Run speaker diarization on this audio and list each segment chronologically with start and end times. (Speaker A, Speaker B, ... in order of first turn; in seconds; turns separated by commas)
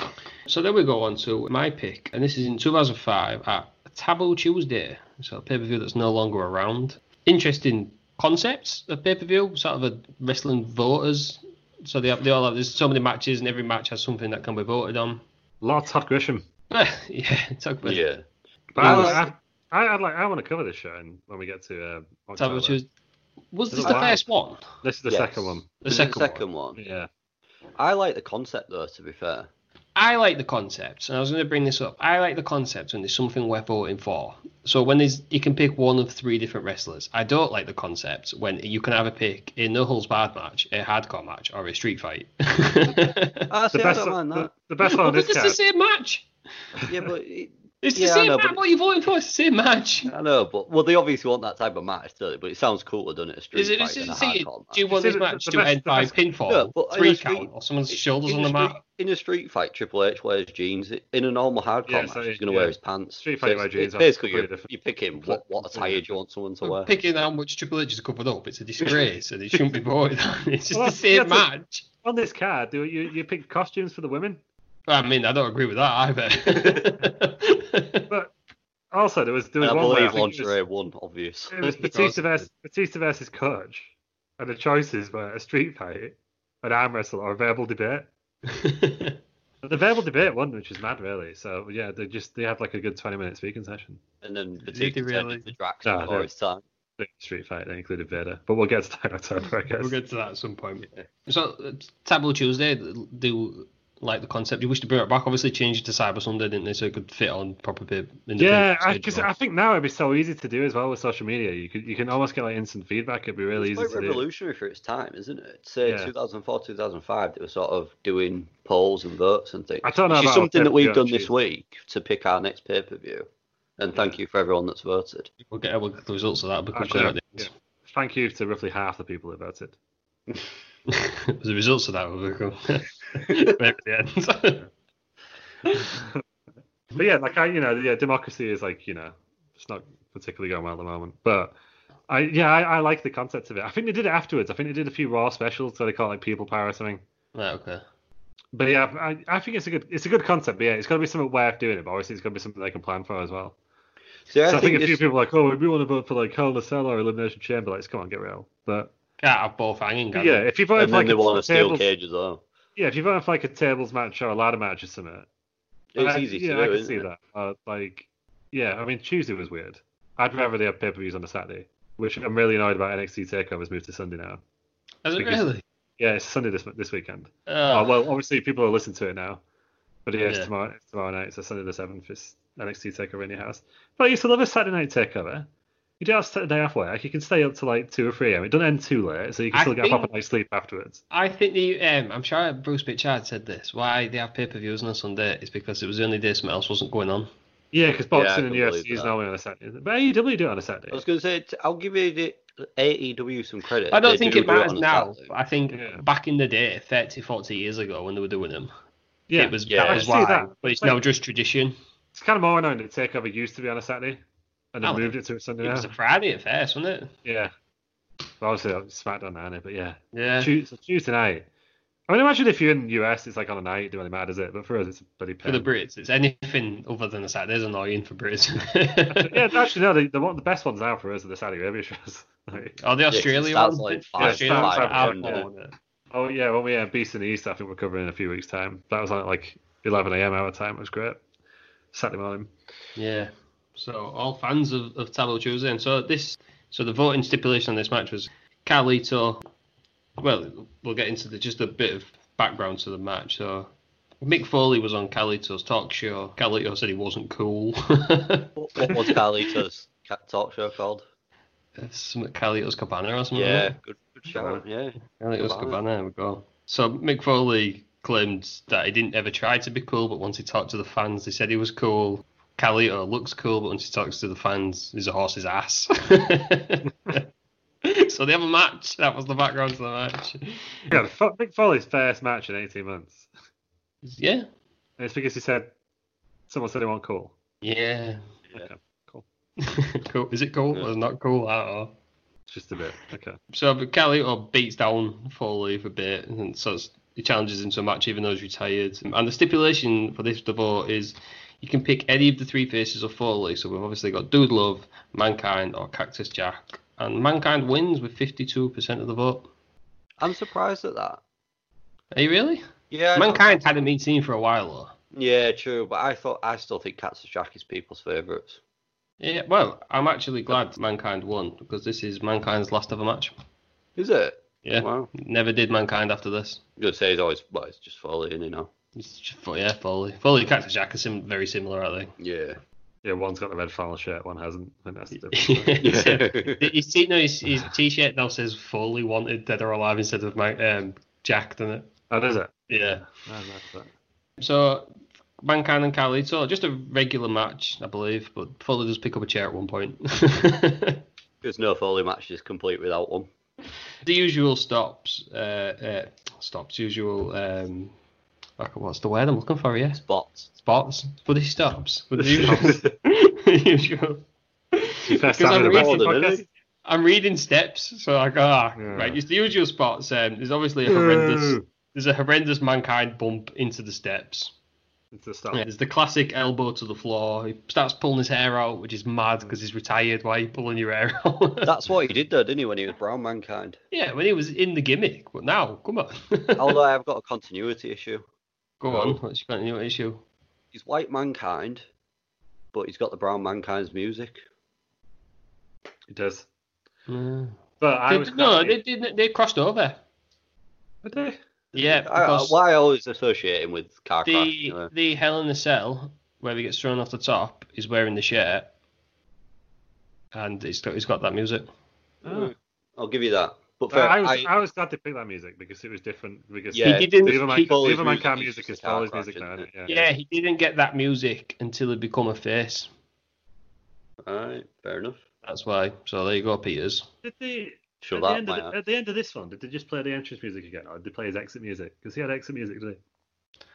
Speaker A: 0.5-15.2, Speaker B: 15.6-16.4, Speaker A: 16.7-18.0, Speaker C: 17.8-18.2, Speaker B: 18.7-22.8, Speaker C: 18.8-19.3, Speaker A: 18.8-19.2, Speaker A: 22.4-22.9, Speaker A: 23.5-24.8, Speaker B: 23.7-24.2, Speaker B: 24.8-25.7, Speaker C: 25.1-26.8, Speaker A: 25.8-26.4, Speaker B: 26.8-27.1, Speaker C: 27.8-29.5, Speaker A: 29.9-43.5, Speaker C: 43.5-44.5, Speaker B: 43.7-45.6, Speaker A: 44.8-46.3, Speaker C: 46.9-48.6, Speaker A: 47.8-50.1, Speaker C: 50.1-54.8, Speaker A: 53.5-58.8, Speaker B: 54.9-56.1, Speaker C: 56.5-66.9, Speaker B: 61.9-66.2, Speaker A: 66.6-71.8, Speaker B: 70.7-71.5, Speaker B: 72.0-74.4, Speaker A: 74.9-78.0, Speaker B: 78.9-80.5, Speaker C: 79.6-81.8, Speaker B: 81.5-88.1, Speaker A: 81.7-82.5, Speaker A: 88.5-89.2, Speaker B: 89.6-94.0, Speaker C: 94.2-96.6, Speaker A: 94.7-95.5, Speaker B: 95.8-96.3, Speaker B: 97.0-99.9, Speaker A: 99.8-109.3, Speaker B: 108.4-114.2, Speaker C: 113.5-123.3, Speaker B: 115.8-116.1, Speaker B: 119.8-121.3, Speaker C: 123.8-125.3, Speaker A: 125.5-127.5, Speaker B: 126.7-129.7, Speaker A: 130.9-134.6, Speaker B: 135.8-136.2, Speaker B: 136.9-141.5, Speaker B: 142.1-147.0, Speaker A: 147.3-147.8, Speaker B: 148.5-153.6, Speaker C: 154.3-155.0, Speaker B: 154.5-158.9, Speaker A: 159.2-160.5, Speaker B: 160.1-161.8, Speaker C: 160.8-162.4, Speaker B: 162.8-165.2, Speaker C: 165.9-167.0, Speaker B: 166.0-174.4, Speaker A: 175.0-175.6, Speaker B: 175.2-175.4, Speaker B: 176.0-179.4, Speaker A: 177.5-177.9, Speaker B: 180.1-185.5, Speaker A: 180.2-180.5, Speaker B: 186.0-191.0, Speaker A: 189.5-190.1, Speaker A: 191.1-197.3, Speaker B: 197.7-201.0, Speaker C: 198.1-199.1, Speaker C: 200.9-205.3, Speaker A: 203.9-208.7, Speaker B: 205.7-206.0, Speaker B: 209.3-211.0, Speaker A: 209.3-211.8, Speaker C: 209.7-210.1, Speaker B: 212.1-214.2, Speaker B: 214.7-215.9, Speaker A: 214.8-217.1, Speaker B: 217.2-217.5, Speaker B: 218.4-221.4, Speaker A: 220.1-220.5, Speaker B: 222.1-225.7, Speaker A: 225.4-229.3, Speaker B: 229.1-232.8, Speaker A: 232.8-235.7, Speaker C: 233.1-235.5, Speaker B: 234.2-235.4, Speaker B: 236.1-241.2, Speaker B: 241.9-242.5, Speaker A: 242.9-249.4, Speaker A: 250.2-253.7, Speaker A: 254.2-258.5, Speaker C: 258.6-261.0, Speaker A: 261.8-263.7, Speaker C: 263.3-265.8, Speaker B: 264.3-264.6, Speaker A: 265.1-277.2, Speaker A: 277.8-280.9, Speaker B: 280.9-283.3, Speaker A: 284.0-284.5, Speaker B: 285.0-285.7, Speaker B: 286.5-287.3, Speaker A: 287.6-288.2, Speaker B: 288.5-289.2, Speaker A: 289.6-291.9, Speaker B: 292.5-293.4, Speaker A: 293.5-309.5, Speaker C: 310.2-311.2, Speaker A: 312.1-312.6, Speaker C: 312.9-313.6, Speaker A: 313.1-314.9, Speaker C: 315.1-318.6, Speaker A: 319.2-323.3, Speaker C: 324.0-325.1, Speaker A: 324.6-326.6, Speaker C: 326.8-328.7, Speaker A: 328.9-332.1, Speaker C: 332.2-332.6, Speaker B: 333.0-335.8, Speaker A: 335.3-341.9, Speaker C: 335.8-336.7, Speaker B: 342.1-343.9, Speaker A: 342.7-343.0, Speaker A: 344.4-344.9, Speaker A: 345.4-351.0, Speaker C: 351.4-353.3, Speaker A: 354.0-357.9, Speaker A: 358.6-360.0, Speaker C: 360.0-360.5, Speaker A: 360.5-366.0, Speaker B: 362.4-362.9, Speaker B: 365.1-366.5, Speaker C: 365.4-366.4, Speaker A: 366.8-374.5, Speaker B: 368.8-369.2, Speaker B: 370.9-371.6, Speaker B: 375.1-375.6, Speaker A: 375.5-381.7, Speaker C: 381.6-383.8, Speaker A: 383.9-386.8, Speaker C: 386.6-388.2, Speaker A: 388.8-390.2, Speaker B: 388.9-389.2, Speaker C: 390.7-391.9, Speaker C: 392.7-394.4, Speaker B: 396.1-396.4, Speaker A: 397.1-400.0, Speaker B: 397.8-398.8, Speaker B: 401.0-401.4, Speaker A: 401.7-402.6, Speaker C: 401.9-404.9, Speaker A: 404.2-408.7, Speaker A: 410.3-411.7, Speaker B: 412.2-412.5, Speaker C: 412.2-414.5, Speaker B: 413.9-419.9, Speaker C: 416.7-420.1, Speaker A: 416.8-417.8, Speaker A: 419.9-422.9, Speaker C: 424.2-425.2, Speaker A: 425.4-427.1, Speaker B: 427.2-433.0, Speaker C: 428.1-428.7